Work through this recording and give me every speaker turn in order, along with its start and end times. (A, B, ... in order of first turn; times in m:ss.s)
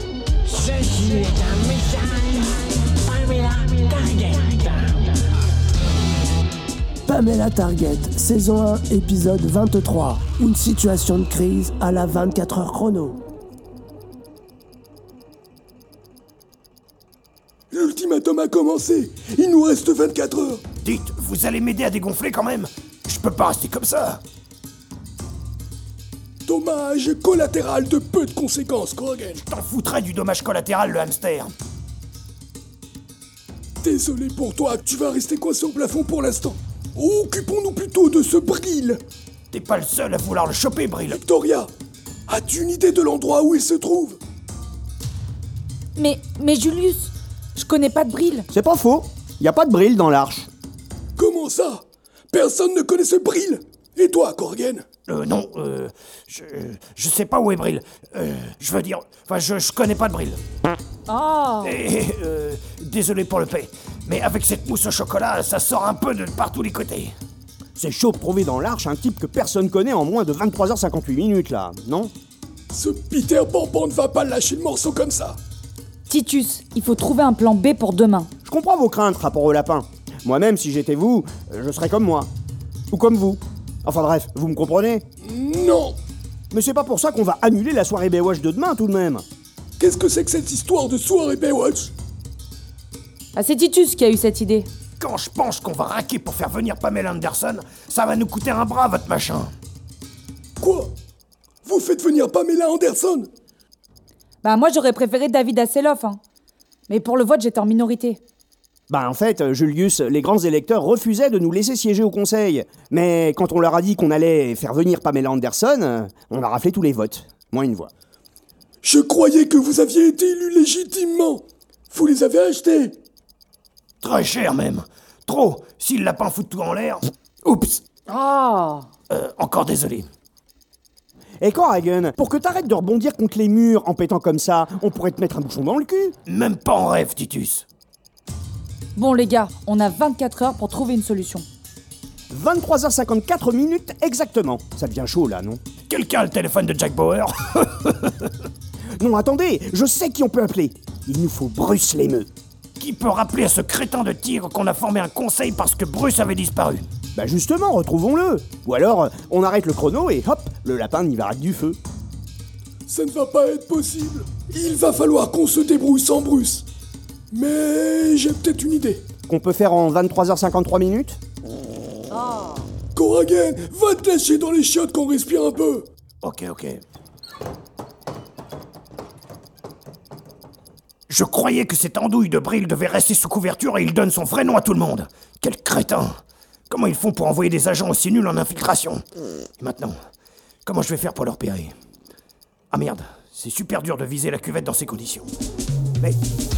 0:00.6-0:01.7 A
0:03.4-0:04.7 A
0:07.0-0:13.2 A
0:17.7-0:20.6 B
0:20.8-0:24.2 C
0:26.4-0:29.4 B
0:29.4-0:31.5 C
0:33.8-0:39.0 B
0:39.5-0:41.2 C
0:41.1-0:41.7 B
0:42.3-0:44.2 B
0:46.0-0:48.5 D
0:48.5-0:50.5 E
0:51.2-0:54.8 B
0:55.1-1:00.4 C
1:01.1-1:01.8 D
1:01.6-1:07.1 C
1:07.8-1:12.1 E
1:12.7-1:15.4 B
1:16.1-1:18.3 D
1:18.4-1:22.3 E
1:22.9-1:25.0 E
1:25.2-1:26.0 B
1:26.5-1:29.2 E
1:29.8-1:31.9 B
1:33.3-1:34.7 D
1:35.0-1:39.5 C
1:40.6-1:40.9 B
1:41.6-1:43.3 B
1:44.4-1:46.2 D
1:46.9-1:48.2 D
1:48.9-1:57.9 E
1:58.8-2:03.0 B
2:04.0-2:07.8 C
2:08.1-2:08.8 D
2:09.1-2:10.1 C
2:11.4-2:16.2 E
2:16.2-2:17.6 C
2:19.0-2:21.4 D
2:22.3-2:25.6 E
2:25.9-2:28.3 C
2:29.0-2:32.3 E
2:32.8-2:36.9 C
2:37.1-2:41.8 E
2:42.9-2:46.6 B
2:47.3-2:49.0 B
2:49.3-2:51.2 E
2:52.9-2:55.9 B
2:56.2-2:56.8 C
3:01.1-3:06.1 C
3:06.7-3:09.0 C
3:09.6-3:10.0 C
3:10.6-3:11.7 C
3:12.7-3:15.3 C